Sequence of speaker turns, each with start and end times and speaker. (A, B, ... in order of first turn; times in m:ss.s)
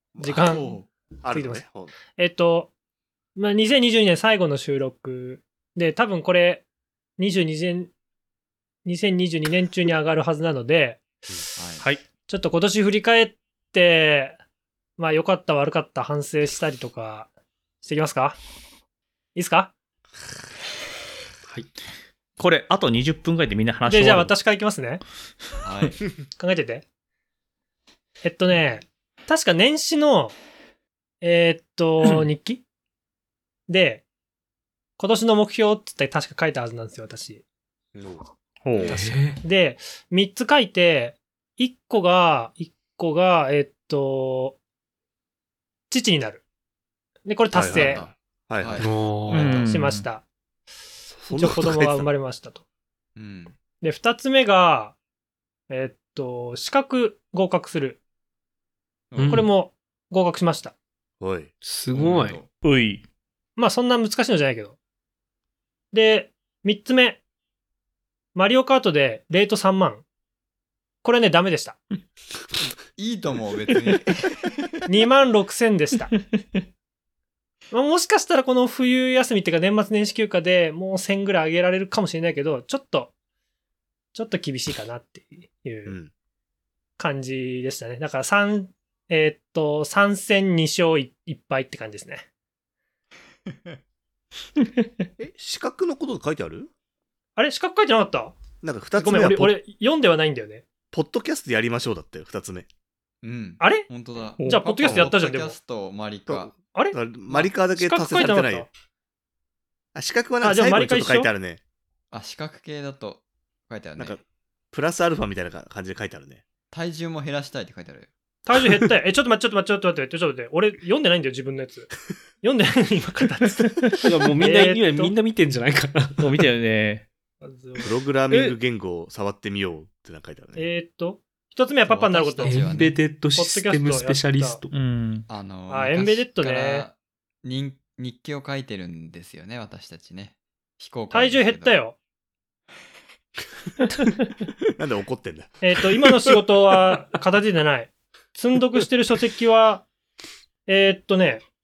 0:00.2-0:01.9 A
0:00.2-0:01.6 B
0:02.2-0:02.7 B
0:03.4-0:06.6 B
0:07.2-0:07.9 B
0:08.8-0:11.0 B
0:11.6-0:11.9 C
0:12.3-0:14.4 B
0:15.0-0:17.3 B
0:17.8-0:18.4 B
0:19.4-0:19.7 B
0:22.4-0:24.3 D
0:23.9-0:25.0 B
0:25.6-0:26.0 C
0:26.4-0:26.8 B
0:28.2-0:30.3 B
0:31.2-0:32.6 B
0:33.7-0:34.0 B
0:35.0-0:37.4 B
0:38.0-0:38.2 A
0:38.6-0:39.0 D
0:38.9-0:39.4 E
0:38.9-0:44.6 B
0:45.9-0:46.4 B
0:47.2-0:48.0 B
0:47.5-0:48.9 A
0:47.6-0:49.8 C
0:48.8-0:49.6 E
0:49.3-0:50.1 D
0:49.6-0:50.2 B
0:51.1-0:52.1 A
0:51.3-0:52.6 B
0:53.2-0:53.6 C
0:53.8-0:55.0 B
0:55.7-0:58.0 B
0:59.1-0:59.5 C
0:59.2-0:59.5 E
0:59.3-1:00.7 B
1:01.2-1:01.5 A
1:01.6-1:02.4 E
1:01.9-1:02.5 C
1:02.6-1:03.0 D
1:03.6-1:04.8 B
1:05.9-1:07.2 B
1:08.4-1:10.0 B
1:11.0-1:11.8 B
1:13.0-1:14.7 C
1:14.9-1:16.1 B
1:17.7-1:23.1 B
1:24.1-1:26.0 B
1:25.9-1:26.1 A
1:27.0-1:32.3 B
1:35.2-1:36.7 A
1:37.4-1:38.4 B
1:38.6-1:39.6 A
1:39.0-1:40.6 B
1:40.9-1:42.7 A
1:43.2-1:46.5 C
1:43.6-1:43.9 B
1:44.4-1:44.9 D
1:44.4-1:45.6 B
1:46.3-1:48.7 A
1:46.7-1:48.7 B
1:50.0-1:51.6 A
1:50.4-1:51.3 B
1:52.1-1:54.2 C
1:54.7-1:56.4 A
1:56.7-1:58.1 C
1:58.5-2:01.9 B
2:02.4-2:05.2 B
2:04.0-2:06.4 E
2:06.2-2:07.1 D
2:07.4-2:07.9 B
2:07.8-2:10.6 A
2:10.6-2:12.7 B
2:11.9-2:13.0 C
2:12.4-2:14.8 E
2:13.3-2:14.6 B
2:14.7-2:15.3 D
2:15.3-2:21.8 C
2:15.7-2:16.9 B
2:21.1-2:22.0 B
2:24.8-2:25.6 A
2:25.6-2:29.9 B
2:30.7-2:31.4 B